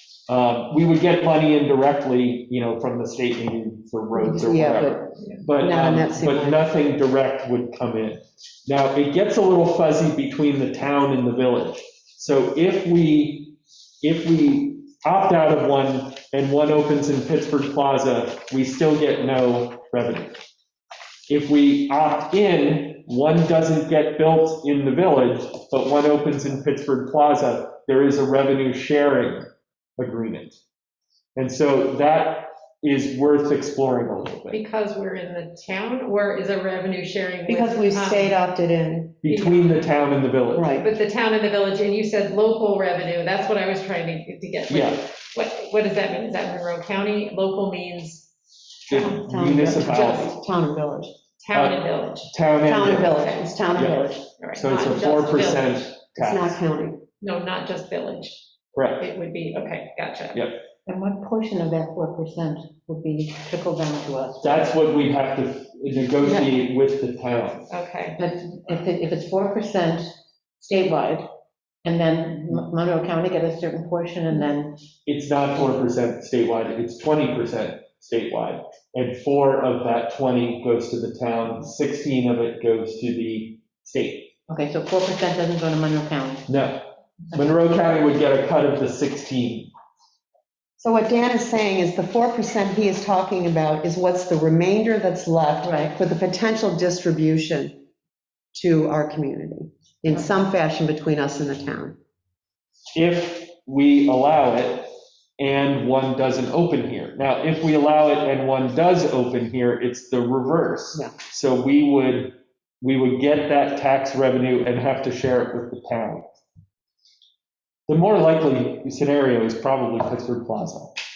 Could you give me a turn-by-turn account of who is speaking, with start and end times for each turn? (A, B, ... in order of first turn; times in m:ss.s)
0:00.3-0:20.4 A
0:04.2-0:06.7 B
0:21.3-0:29.5 A
0:30.0-0:30.6 A
0:31.4-0:34.6 A
0:34.5-0:38.4 C
0:37.5-0:39.2 B
0:39.2-0:40.8 A
0:39.3-0:40.0 C
0:40.6-0:40.9 B
0:40.8-0:48.3 C
0:44.7-0:45.0 A
0:48.9-0:49.2 C
0:48.9-0:50.4 A
0:49.0-0:51.1 B
0:51.4-0:53.8 C
0:51.5-0:53.2 A
0:52.7-0:54.2 B
0:53.8-0:54.0 A
0:54.4-0:55.9 C
0:54.5-0:56.6 A
0:56.2-0:57.0 B
0:57.2-0:58.4 C
0:58.8-0:59.0 A
0:59.0-1:00.4 C
1:00.3-1:00.6 A
1:00.9-1:04.7 D
1:04.4-1:07.7 A
1:06.2-1:06.5 D
1:07.7-1:08.2 C
1:08.2-1:10.1 D
1:10.6-1:11.3 D
1:11.8-1:14.8 D
1:15.1-1:24.3 A
1:24.5-1:26.5 D
1:26.5-1:26.8 A
1:27.3-1:29.7 A
1:30.8-1:37.8 B
1:35.6-1:35.9 D
1:38.5-1:42.0 B
1:43.0-1:56.4 A
1:57.9-2:00.9 A